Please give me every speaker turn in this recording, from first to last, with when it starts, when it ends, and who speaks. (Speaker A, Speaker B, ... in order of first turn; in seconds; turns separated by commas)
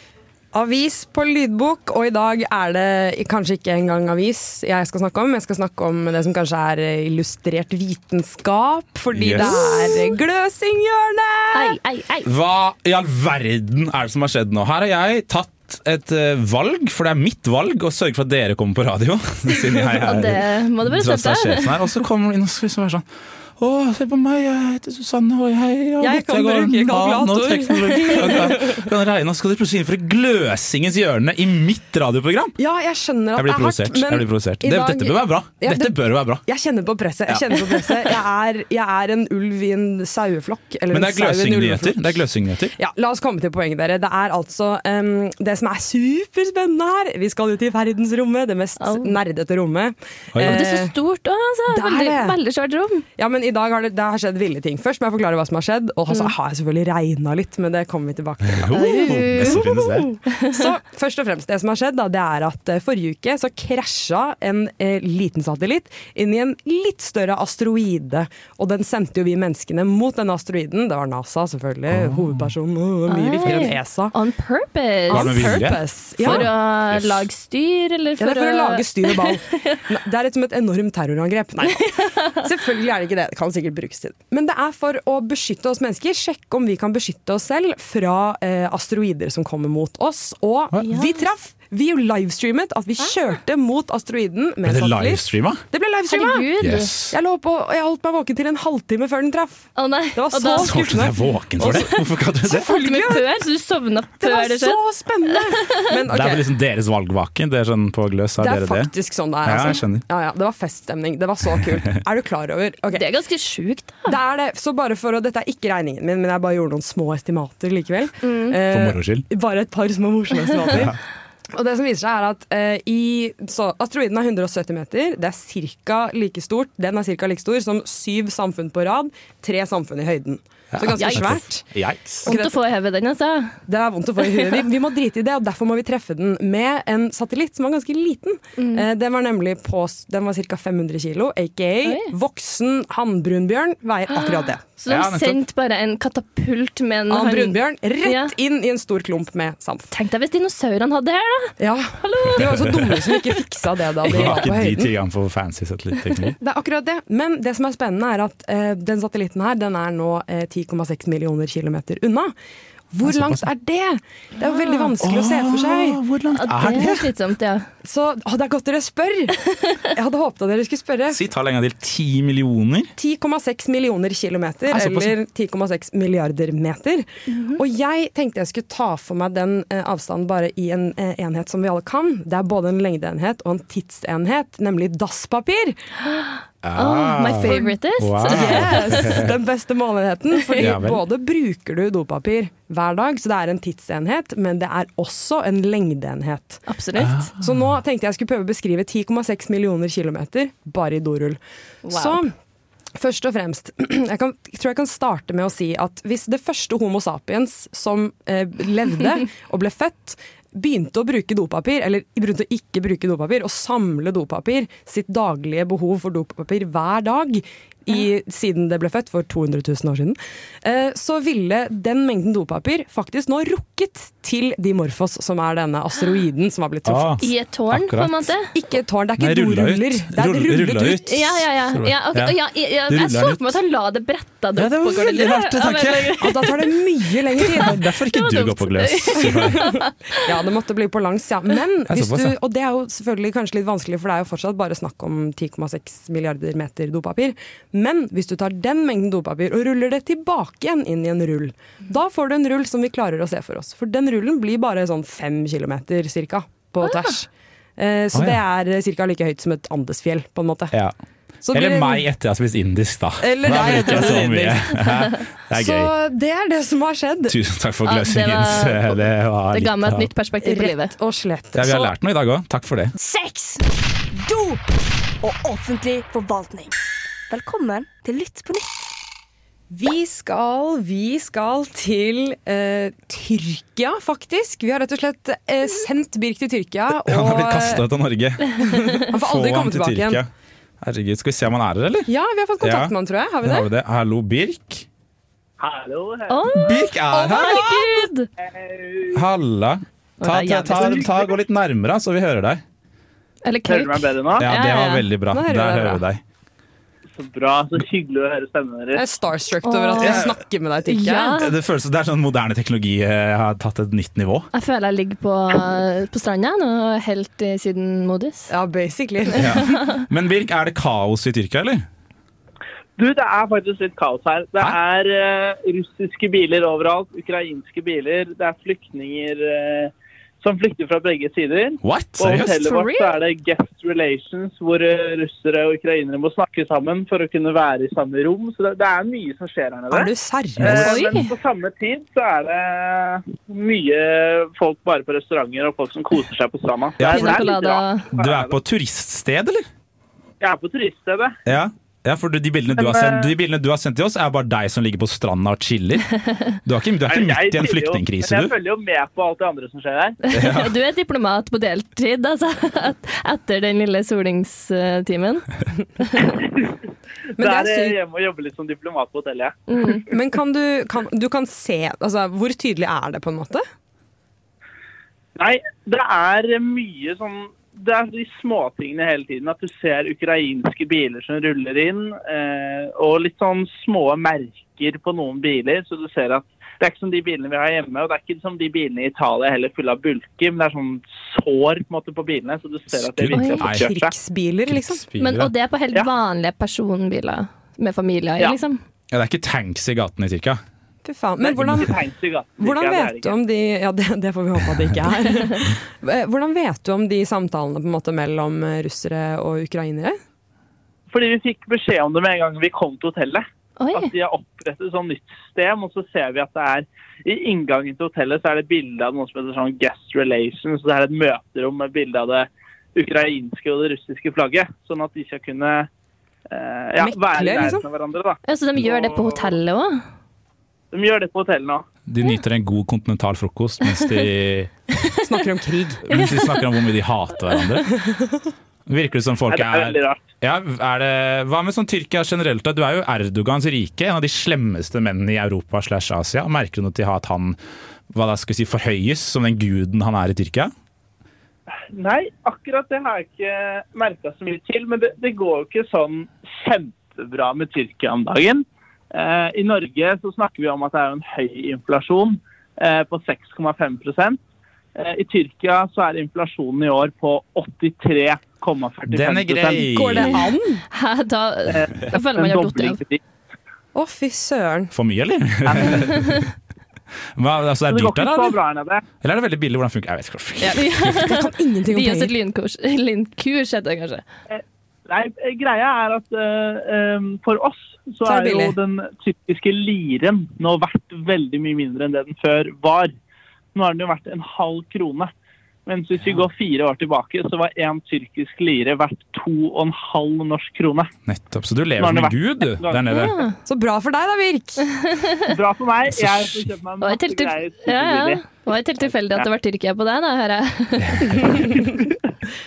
Speaker A: 0.5-11.8, Speaker B: 9.1-9.7, Speaker C: 9.4-10.1, Speaker C: 11.5-12.3, Speaker B: 12.2-23.1, Speaker C: 20.0-21.8, Speaker B: 23.6-32.6, Speaker A: 26.0-28.9, Speaker A: 32.6-42.2, Speaker B: 33.4-36.4, Speaker B: 37.3-38.2, Speaker B: 40.9-42.8, Speaker A: 42.8-50.9, Speaker C: 48.8-49.1, Speaker B: 50.3-50.7, Speaker C: 50.4-53.0, Speaker A: 51.7-52.4, Speaker A: 53.2-74.2, Speaker B: 58.5-60.1, Speaker C: 58.7-59.6, Speaker B: 71.9-72.5, Speaker C: 73.1-79.8, Speaker A: 75.1-76.5, Speaker B: 75.1-77.2, Speaker A: 78.2-96.5, Speaker C: 81.9-82.4, Speaker C: 90.8-91.1, Speaker B: 94.6-95.6, Speaker C: 96.1-96.9, Speaker B: 96.6-97.2, Speaker A: 97.1-103.3, Speaker C: 99.8-100.7, Speaker B: 100.5-102.7, Speaker C: 101.6-102.0, Speaker C: 102.5-104.8, Speaker A: 104.2-106.5, Speaker B: 106.1-110.1, Speaker A: 108.4-113.1, Speaker C: 112.9-114.2, Speaker A: 114.1-121.0, Speaker C: 118.2-118.6, Speaker B: 118.7-119.3, Speaker B: 120.7-121.0, Speaker A: 121.5-131.7, Speaker B: 130.7-132.3, Speaker C: 130.9-131.4, Speaker A: 132.2-132.6, Speaker C: 132.2-133.6, Speaker A: 133.7-144.6, Speaker C: 134.3-134.6, Speaker C: 138.6-138.8, Speaker C: 141.8-142.1, Speaker C: 144.1-148.3, Speaker B: 144.9-145.4, Speaker A: 147.1-149.9, Speaker C: 149.9-153.2, Speaker A: 151.6-154.9, Speaker B: 152.4-152.8, Speaker B: 154.1-156.3, Speaker C: 154.1-154.4, Speaker A: 156.4-162.3, Speaker A: 162.9-166.0, Speaker B: 163.0-163.5, Speaker C: 164.4-164.9, Speaker B: 165.0-167.1, Speaker C: 166.3-167.7, Speaker A: 167.8-171.2, Speaker B: 171.1-172.9, Speaker A: 173.0-185.8, Speaker B: 174.7-175.2, Speaker C: 177.3-177.6, Speaker B: 186.6-189.4, Speaker C: 186.8-189.2, Speaker A: 187.4-187.7, Speaker A: 188.3-196.7, Speaker B: 190.6-191.0, Speaker C: 196.7-197.3, Speaker B: 197.0-197.6, Speaker A: 197.4-202.3, Speaker C: 201.8-202.2, Speaker A: 203.0-227.3, Speaker B: 226.8-228.3, Speaker C: 227.2-228.5, Speaker A: 228.5-231.0, Speaker B: 229.2-233.6, Speaker C: 231.0-236.6, Speaker B: 234.6-236.4, Speaker A: 236.2-237.8, Speaker B: 237.4-239.7, Speaker C: 237.6-240.1, Speaker A: 239.5-260.7, Speaker B: 241.9-242.4, Speaker C: 256.8-257.1, Speaker B: 258.1-258.4, Speaker A: 261.4-262.0, Speaker B: 261.5-265.9, Speaker A: 263.2-264.8, Speaker A: 265.5-267.4, Speaker B: 267.3-270.1, Speaker C: 267.9-269.0, Speaker C: 269.5-270.9, Speaker A: 270.4-271.9, Speaker B: 271.5-272.9, Speaker D: 273.0-274.7, Speaker D: 275.2-276.8, Speaker D: 277.3-278.9, Speaker A: 279.7-287.9, Speaker B: 286.9-290.3, Speaker A: 288.6-290.2, Speaker B: 290.8-294.9, Speaker A: 292.1-293.7, Speaker E: 295.6-296.6, Speaker C: 296.3-298.3, Speaker B: 296.5-297.9, Speaker A: 297.4-297.6, Speaker E: 298.4-299.2, Speaker B: 299.1-302.6, Speaker C: 300.2-301.0, Speaker E: 300.8-301.2, Speaker C: 303.4-305.1, Speaker E: 303.7-304.5, Speaker B: 304.4-306.2, Speaker A: 305.3-306.0, Speaker E: 307.2-309.0, Speaker A: 308.9-311.4, Speaker C: 309.6-310.2, Speaker B: 310.0-310.4, Speaker C: 310.9-311.5, Speaker B: 311.2-314.5, Speaker C: 314.5-318.5, Speaker A: 318.5-319.8, Speaker B: 319.4-321.9, Speaker E: 323.0-340.1, Speaker B: 331.8-332.6, Speaker C: 332.5-333.2, Speaker A: 339.9-341.1, Speaker E: 340.6-348.6, Speaker C: 340.6-341.3, Speaker B: 347.0-347.5, Speaker C: 347.1-348.1, Speaker B: 348.1-349.7, Speaker E: 350.4-351.4, Speaker B: 351.5-356.1, Speaker E: 352.8-353.3, Speaker B: 356.6-358.5, Speaker E: 357.1-360.2, Speaker C: 360.2-365.5, Speaker B: 360.3-360.7, Speaker C: 366.0-366.3, Speaker E: 366.4-366.7, Speaker E: 367.4-369.6, Speaker A: 367.4-367.9, Speaker C: 369.7-370.0, Speaker A: 370.1-373.6, Speaker E: 375.4-394.1, Speaker B: 392.9-393.9, Speaker C: 393.3-393.7, Speaker A: 393.7-395.0, Speaker B: 394.7-395.5, Speaker C: 395.2-398.8, Speaker B: 399.1-400.6, Speaker A: 401.0-402.0, Speaker E: 401.4-403.4, Speaker A: 402.6-410.2, Speaker E: 411.1-425.9, Speaker C: 413.8-414.1, Speaker E: 426.5-429.5, Speaker A: 427.0-427.8, Speaker C: 428.5-430.0, Speaker E: 430.9-431.9, Speaker B: 432.1-434.7, Speaker C: 433.9-434.2, Speaker A: 435.2-436.1, Speaker B: 436.1-437.9, Speaker C: 436.1-436.6, Speaker A: 438.1-438.3, Speaker B: 438.9-447.6, Speaker E: 439.5-440.2, Speaker B: 448.1-450.7, Speaker E: 451.8-464.4, Speaker E: 464.9-469.9, Speaker B: 469.1-470.5, Speaker A: 469.8-470.8, Speaker C: 470.9-473.0, Speaker E: 471.7-473.2, Speaker A: 473.9-474.9, Speaker B: 474.9-476.5, Speaker E: 475.7-476.0, Speaker C: 476.1-476.4, Speaker B: 477.4-478.6, Speaker E: 477.9-479.0, Speaker B: 479.2-481.2, Speaker A: 480.6-482.3, Speaker C: 480.8-484.2, Speaker E: 484.5-493.1, Speaker A: 488.2-488.7, Speaker E: 493.7-495.3, Speaker E: 495.9-501.1, Speaker B: 501.3-503.4, Speaker E: 502.0-503.1, Speaker C: 503.1-503.6, Speaker A: 503.7-504.9, Speaker C: 505.0-505.5, Speaker E: 505.5-508.4, Speaker B: 506.1-506.7, Speaker C: 507.0-511.6, Speaker B: 511.0-511.7, Speaker A: 511.5-512.0